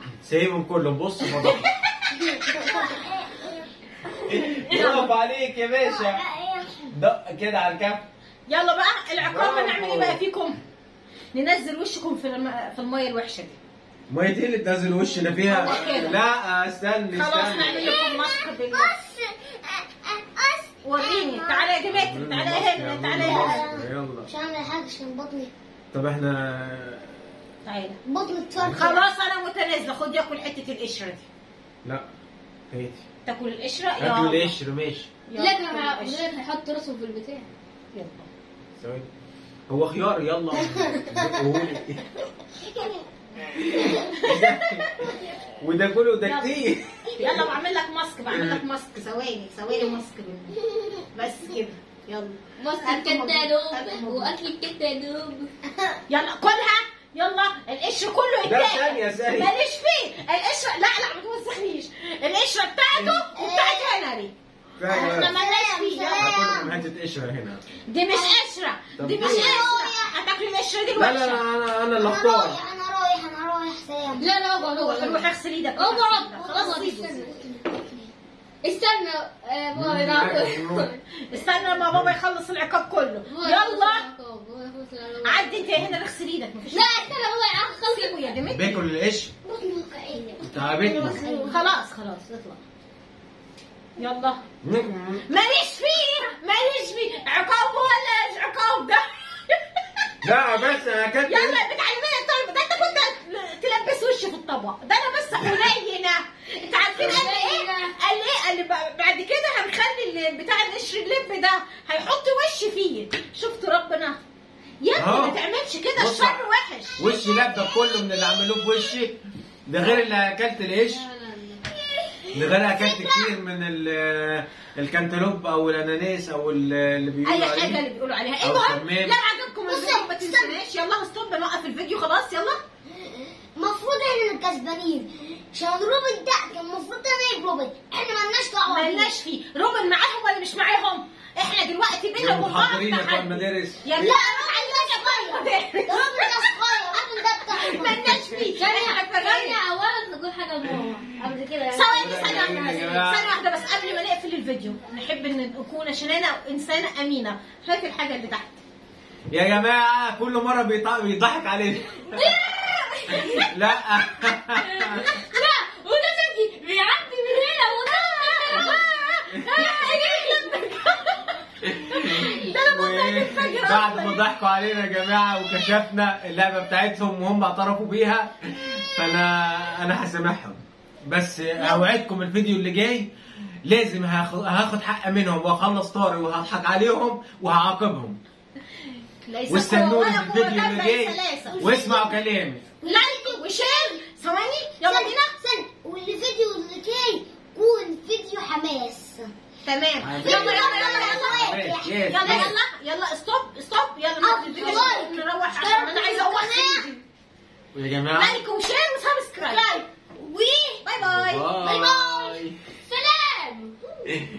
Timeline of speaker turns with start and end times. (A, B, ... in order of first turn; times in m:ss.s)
0:00.2-0:01.7 A
0:01.4-0:01.6 B
0:02.1-0:03.7 C
0:04.2-0:06.2 A
0:04.6-0:05.0 C
0:04.7-0:05.1 B
0:05.8-0:06.9 C
0:06.9-0:08.0 A
0:08.5-0:10.6 B
0:09.2-0:10.2 A
0:11.3-0:13.6 B
0:14.1-0:17.9 A
0:15.4-0:16.2 B
0:15.7-0:16.0 C
0:17.1-0:18.9 B
0:17.5-0:21.7 C
0:20.8-0:23.7 B
0:21.9-0:24.3 A
0:23.2-0:25.5 C
0:25.9-0:27.2 A
0:27.6-0:28.0 B
0:28.0-0:29.0 C
0:28.6-0:28.8 A
0:28.8-0:31.3 B
0:32.7-0:33.0 A
0:33.2-0:34.5 B
0:34.0-0:35.1 A
0:35.3-0:36.2 B
0:35.3-0:37.5 D
0:37.9-0:38.3 B
0:38.8-0:39.1 A
0:39.7-0:42.1 A
0:40.6-0:41.3 C
0:42.5-0:43.0 C
0:43.5-0:47.5 A
0:43.8-0:44.6 B
0:43.8-0:44.1 C
0:46.2-0:46.5 B
0:47.2-0:50.5 B
0:48.3-0:48.6 A
0:51.1-0:54.3 B
0:52.6-0:55.5 D
0:55.7-0:56.0 C
0:56.1-1:04.3 B
0:58.4-0:59.5 A
1:02.9-1:03.2 A
1:03.3-1:04.0 C
1:04.8-1:05.3 A
1:04.8-1:06.8 C
1:04.9-1:06.4 B
1:06.2-1:07.6 A
1:07.9-1:11.4 B
1:08.1-1:08.4 C
1:09.0-1:09.7 A
1:09.2-1:10.2 C
1:11.0-1:12.6 A
1:12.0-1:14.3 C
1:14.2-1:18.1 D
1:14.6-1:17.2 B
1:17.1-1:17.4 C
1:18.6-1:21.7 D
1:19.7-1:20.9 A
1:21.3-1:24.0 B
1:21.9-1:22.2 A
1:23.3-1:25.7 D
1:25.2-1:27.1 B
1:26.7-1:28.4 D
1:27.7-1:28.8 B
1:28.5-1:29.3 A
1:29.4-1:31.6 C
1:30.4-1:31.2 A
1:30.8-1:31.6 D
1:31.0-1:32.6 B
1:34.0-1:34.4 B
1:34.6-1:35.2 A
1:35.2-1:40.1 B
1:40.2-1:41.6 A
1:41.2-1:54.2 B
1:46.7-1:47.9 D
1:54.8-1:57.0 B
1:54.9-1:55.4 A
1:56.0-1:56.4 A
1:57.0-2:01.0 A
1:57.0-1:58.7 C
2:00.8-2:01.7 D
2:02.3-2:03.4 C
2:02.3-2:07.8 A
2:07.2-2:12.6 B
2:08.4-2:09.2 A
2:09.7-2:10.6 C
2:13.0-2:19.1 C
2:18.6-2:29.6 B
2:22.2-2:24.0 A
2:24.0-2:28.2 C
2:28.5-2:32.9 D
2:31.7-2:38.6 B
2:31.9-2:33.3 A
2:39.3-2:42.5 A
2:42.1-2:43.5 D
2:43.1-2:45.1 A
2:44.6-2:51.2 D
2:47.9-2:48.9 B
2:49.4-2:51.3 B
2:51.6-3:03.1 A
2:51.9-2:54.2 B
2:52.1-2:52.6 D
3:01.6-3:01.9 B
3:03.6-3:08.2 A
3:09.2-3:11.7 B
3:09.5-3:12.6 A
3:11.6-3:12.2 C
3:12.8-3:14.0 C
3:12.8-3:15.3 B
3:14.8-3:19.3 C
3:19.6-3:21.5 B
3:20.0-3:22.5 A
3:20.2-3:22.5 C
3:22.1-3:27.0 B
3:24.2-3:26.9 C
3:24.5-3:25.2 D
3:27.7-3:28.4 A
3:28.2-3:29.8 B
3:29.4-3:30.8 C
3:30.8-3:31.5 B
3:31.0-3:32.5 A
3:31.6-3:33.7 C